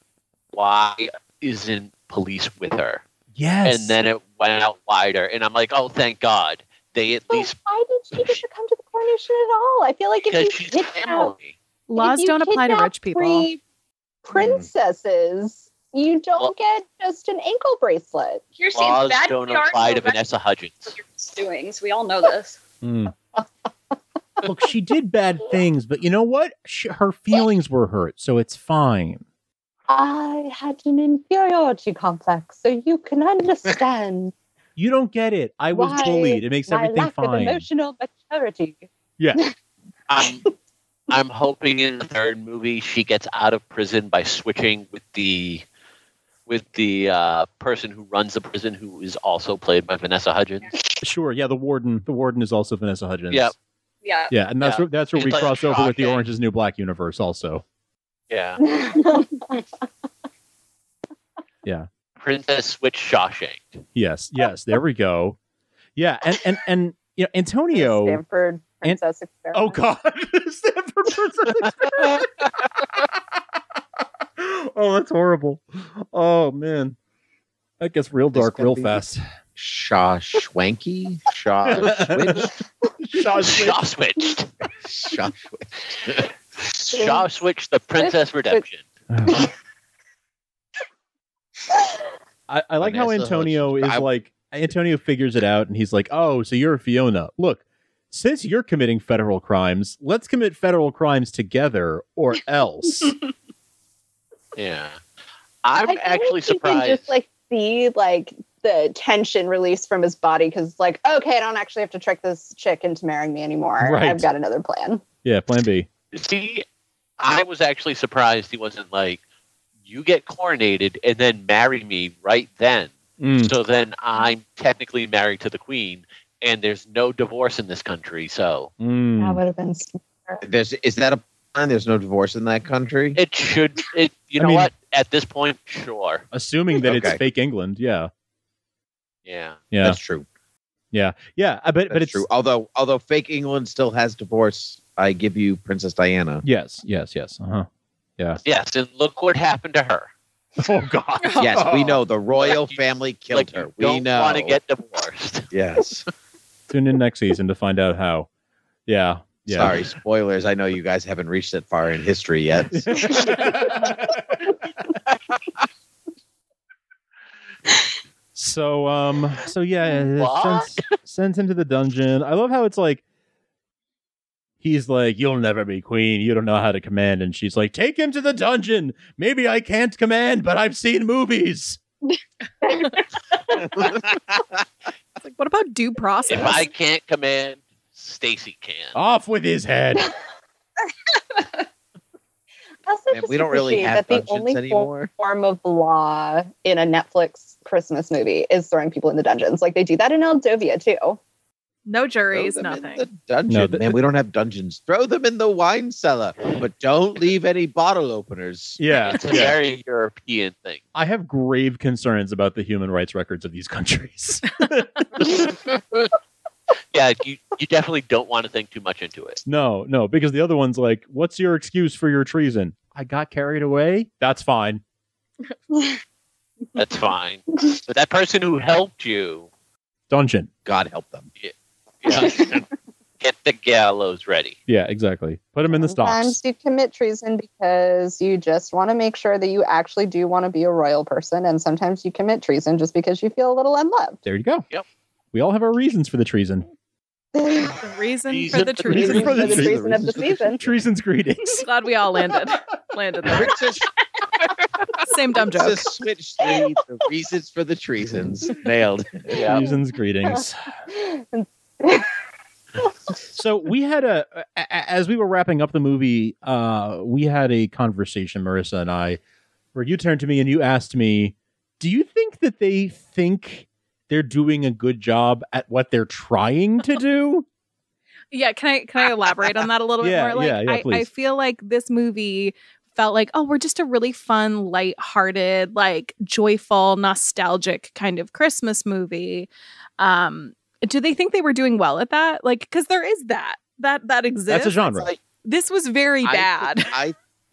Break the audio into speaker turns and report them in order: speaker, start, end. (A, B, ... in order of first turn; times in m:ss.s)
0:00.5-0:03.0 A
0:03.3-0:04.0 B
0:03.6-0:07.5 A
0:07.3-0:11.3 C
0:10.3-0:11.5 A
0:11.9-0:13.5 D
0:12.0-0:13.6 C
0:14.2-0:18.4 C
0:18.6-0:20.2 E
0:18.7-0:21.0 A
0:20.9-0:22.6 E
0:22.8-0:23.1 B
0:24.4-0:29.2 B
0:29.9-0:34.3 C
0:34.8-0:37.6 B
0:35.7-0:38.8 C
0:40.1-0:40.4 A
0:41.1-0:45.6 A
0:46.5-0:50.7 A
0:51.0-0:53.5 B
0:54.0-0:54.3 E
0:54.3-0:57.6 B
0:54.6-0:56.2 A
0:58.3-0:58.6 A
0:58.6-0:59.4 C
1:02.2-1:03.8 A
1:03.9-1:05.4 B
1:06.0-1:08.2 B
1:07.7-1:09.8 C
1:09.5-1:13.2 B
1:14.4-1:17.0 B
1:17.8-1:19.2 B
1:18.3-1:19.0 F
1:19.6-1:22.5 F
1:21.7-1:22.5 B
1:23.0-1:23.8 B
1:23.4-1:24.5 A
1:24.8-1:26.3 F
1:26.1-1:28.8 A
1:26.9-1:27.3 C
1:28.0-1:28.6 C
1:29.1-1:29.5 B
1:32.5-1:43.2 B
1:32.8-1:34.0 F
1:44.6-1:45.0 A
1:45.6-1:47.1 A
1:45.8-1:55.0 C
1:53.8-1:54.3 B
1:55.2-1:55.9 B
1:56.1-1:56.6 A
1:57.2-1:59.2 A
1:59.8-2:08.7 A
2:03.2-2:03.5 B
2:08.8-2:09.4 B
2:09.2-2:10.4 C
2:10.4-2:13.2 F
2:13.2-2:16.2 A
2:14.4-2:14.7 B
2:16.3-2:18.1 B
2:16.8-2:17.2 F
2:19.2-2:19.6 A
2:19.7-2:20.0 B
2:19.8-2:20.2 F
2:20.9-2:22.2 B
2:21.9-2:26.4 F
2:26.4-2:27.7 B
2:28.4-2:30.1 A
2:30.6-2:32.0 B
2:31.2-2:31.5 D
2:31.4-2:34.6 F
2:32.3-2:32.8 A
2:33.3-2:35.5 A
2:35.5-2:36.0 F
2:36.7-2:38.3 B
2:38.8-2:39.8 B
2:39.5-2:43.4 F
2:42.7-2:44.2 B
2:48.3-2:53.0 B
2:50.2-2:50.7 A
2:54.6-3:01.8 B
3:02.6-3:02.9 C
3:03.8-3:04.4 F
3:05.2-3:06.7 D
3:06.3-3:08.9 A
3:08.9-3:10.1 B
3:12.8-3:21.2 C
3:13.1-3:15.1 F
3:21.8-3:23.0 D
3:22.3-3:28.8 F
3:23.5-3:24.0 B
3:28.8-3:29.6 B
3:29.0-3:30.8 A
3:30.9-3:35.2 B
3:35.2-3:36.1 A
3:36.9-3:39.4 A
3:39.4-3:44.8 B
3:46.7-3:49.5 A
3:50.1-3:50.5 B
3:50.6-3:51.3 F
3:51.4-3:52.6 A
3:53.2-3:54.6 A
3:54.7-3:56.4 B
3:55.7-4:04.2 C
4:04.2-4:04.6 B
4:05.3-4:06.6 B
4:07.3-4:07.8 C
4:07.7-4:09.6 D
4:08.3-4:09.2 A
4:08.8-4:11.6 B
4:08.9-4:10.4 F
4:09.0-4:10.6 C
4:11.6-4:13.7 D
4:13.3-4:13.9 F
4:15.0-4:15.9 D
4:15.4-4:19.6 F
4:19.3-4:19.6 A
4:19.4-4:20.6 B
4:20.3-4:22.1 C
4:23.3-4:29.2 B
4:29.7-4:37.4 B
4:38.3-4:57.0 D
4:40.0-4:41.1 B
4:54.5-4:55.1 B
4:56.2-4:57.2 F